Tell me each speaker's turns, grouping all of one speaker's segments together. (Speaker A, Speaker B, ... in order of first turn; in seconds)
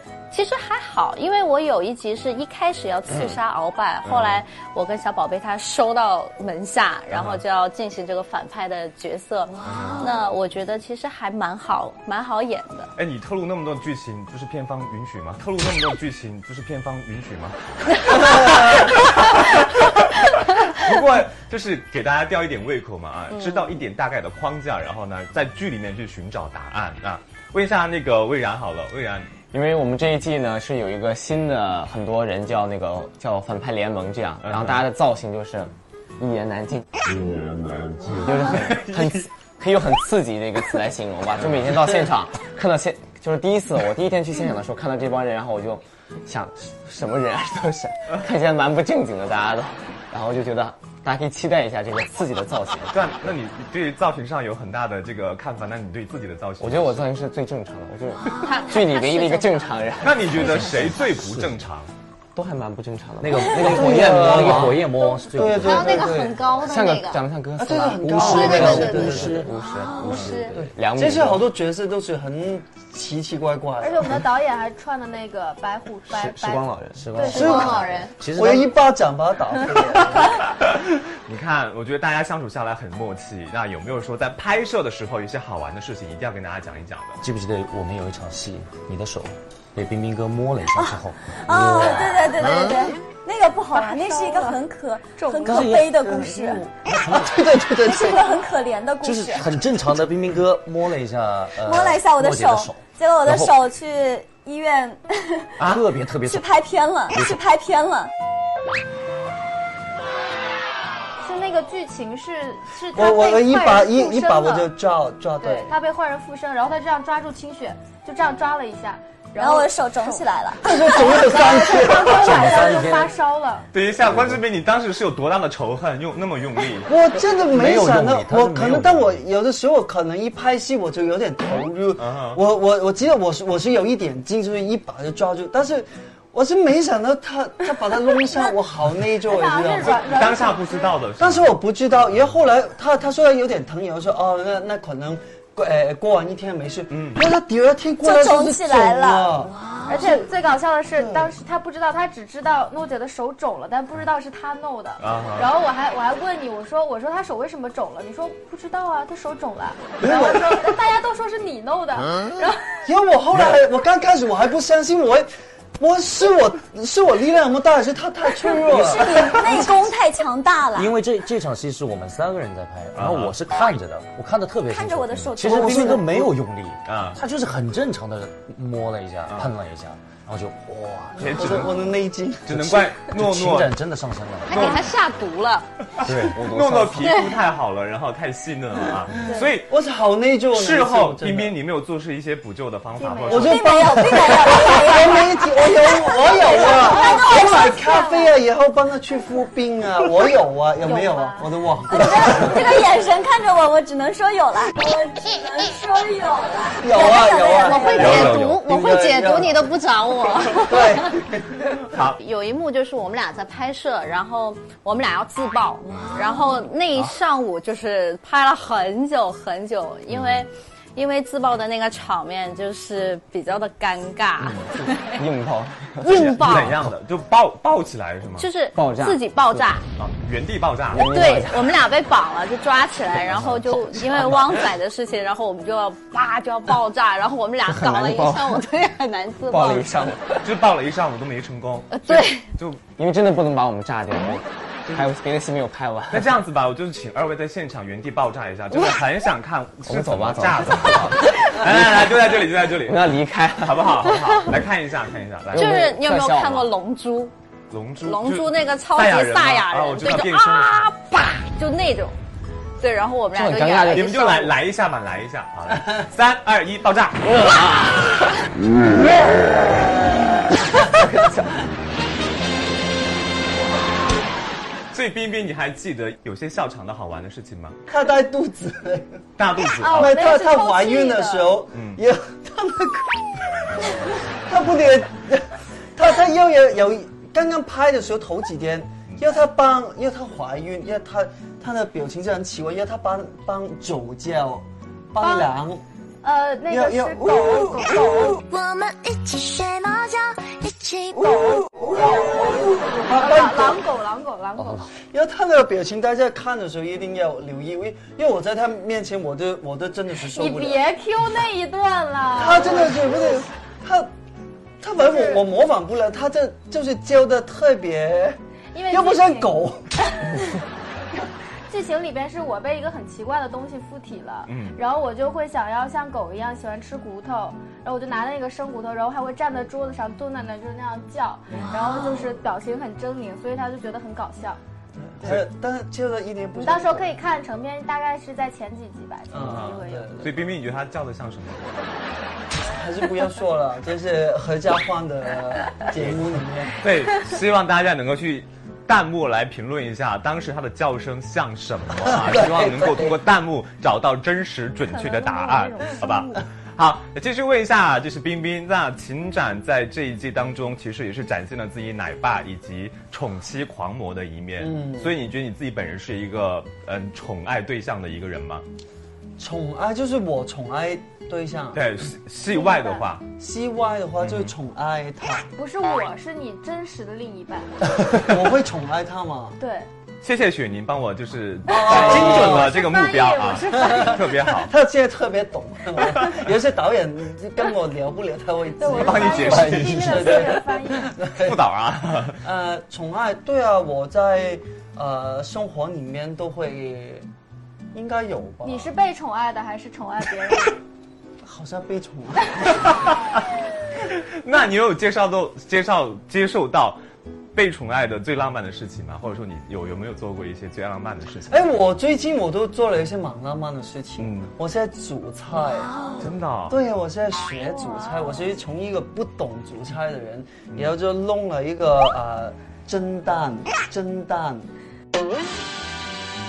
Speaker A: 0.3-12.9, 18.1-18.6, 23.3-23.7, 58.4-60.9, 65.6-67.2, 68.2-69.2, 70.0-70.5, 77.3-78.1, 184.5-185.7, 187.1-187.3, 207.6-211.2, 212.2-225.2, 226.0-226.8, 228.4-229.8, 231.0-240.1, 241.9-242.5, 255.6-257.3, 258.0-262.2, 262.8-264.5
Speaker B: 4.0-4.4, 7.1-7.4, 9.7-10.0, 13.0-29.3, 34.4-34.8, 38.6-39.3, 52.9-57.1, 60.0-61.9, 81.3-87.2, 123.7-126.9, 132.0-132.4, 139.8-141.5, 146.9-147.2, 155.0-155.5, 172.9-173.4, 176.8-177.2, 181.2-181.7, 182.5-183.8, 184.5-184.8, 186.0-189.7, 190.5-193.6, 208.0-208.6, 211.9-212.2, 220.1-220.4, 226.1-228.5, 230.0-231.1, 240.4-242.8, 244.9-245.1, 246.1-255.8, 257.7-260.9, 263.9-267.4, 274.9-277.8, 279.4-280.2, 281.7-282.0, 324.5-324.8, 335.2-335.5, 339.4-341.8, 346.8-368.6, 371.7-373.2, 374.2-374.5, 380.2-384.7, 388.9-390.4, 391.4-392.4, 402.9-403.1, 404.1-407.0, 407.6-411.6, 414.2-414.5, 416.2-416.8
Speaker C: 29.5-36.9, 38.1-53.1, 56.6-60.6, 62.4-64.8, 66.6-71.5, 76.1-77.1, 186.3-187.2, 225.2-226.8, 228.8-229.7, 230.9-231.8, 233.9-234.3, 237.7-238.6, 239.5-240.5, 243.0-246.3, 249.9-254.1, 255.5-256.7, 263.3-264.3, 267.3-268.0, 270.9-271.4, 381.9-382.6
Speaker D: 60.6-61.6, 63.2-66.2, 68.0-70.7, 77.0-78.7, 87.2-92.4, 95.5-97.4, 99.0-103.6, 105.6-106.5, 107.1-107.4, 122.1-123.1, 124.0-124.4, 127.3-129.2, 170.7-181.7, 182.5-184.8, 186.1-186.7, 304.6-304.9
Speaker E: 63.6-66.5, 67.6-69.5, 70.5-74.2, 77.2-80.4, 96.1-98.3, 112.9-115.7, 120.6-122.8, 126.9-140.0, 141.2-150.2, 151.0-151.3, 160.0-160.7, 162.9-169.6, 175.5-176.3, 181.2-182.7, 189.3-191.6, 193.3-202.9, 206.8-209.7, 210.7-211.6, 277.9-279.2, 279.9-283.9, 284.5-295.8, 296.7-297.7, 302.0-303.8, 305.1-310.8, 312.4-314.1, 314.8-318.4, 318.9-319.9, 335.2-337.1, 339.3-340.3, 342.7-346.8, 352.2-353.2, 364.6-365.1, 369.4-371.8, 373.4-375.5, 378.2-379.6, 381.7-382.8, 383.7-391.6, 392.4-397.3, 397.9-398.9, 401.4-402.8, 411.5-416.0, 416.7-424.7
Speaker F: 73.8-77.7, 93.7-95.8, 111.2-114.7, 115.4-123.7, 139.2-141.0, 149.9-162.8, 189.2-189.5, 193.0-193.9, 194.6-194.9, 196.2-198.4, 200.8-201.5, 279.8-281.5, 295.2-295.5, 296.2-298.4, 301.9-304.9, 310.2-313.4, 315.0-315.5, 318.7-319.6, 321.7-334.6, 336.6-340.2, 354.9-356.4, 372.5-373.0, 375.6-377.7, 379.6-379.9, 381.7-384.3, 388.8-391.1, 398.6-400.8, 417.6-418.5
Speaker G: 90.8-96.7, 97.8-99.6, 101.5-108.1, 119.3-121.2, 148.0-149.4, 168.4-171.0, 174.7-176.3, 193.4-197.8, 201.9-208.2
Speaker H: 298.5-301.3